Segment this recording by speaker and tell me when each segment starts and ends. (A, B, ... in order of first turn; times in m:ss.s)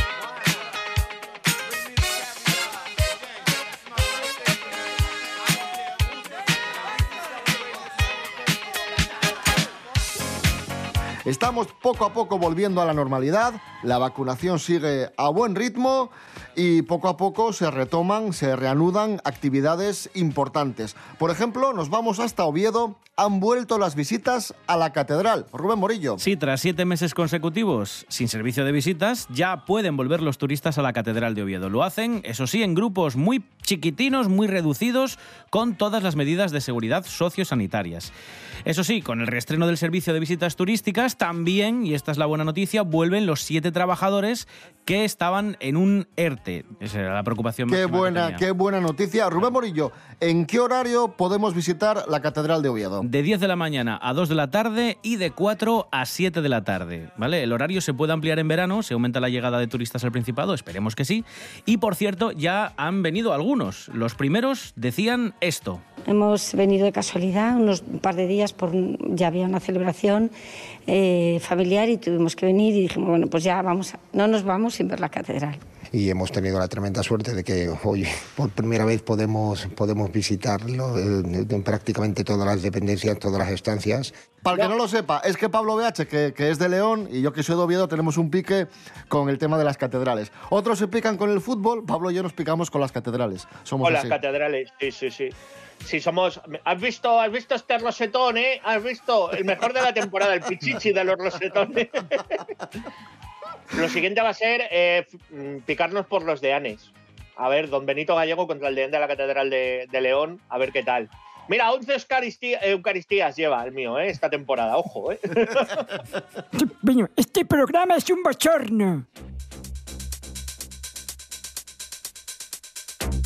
0:11.2-0:26.2 A
0:26.2-0:38.1 B
0:38.7-0:48.4 B
0:47.7-0:53.1 A
0:53.0-1:05.8 B
1:06.1-1:10.3 C
1:10.9-1:15.6 C
1:15.9-1:24.1 D
1:24.4-1:34.2 A
1:33.8-1:35.3 E
1:35.8-1:42.4 E
1:43.7-1:55.8 E
1:56.6-1:59.0 F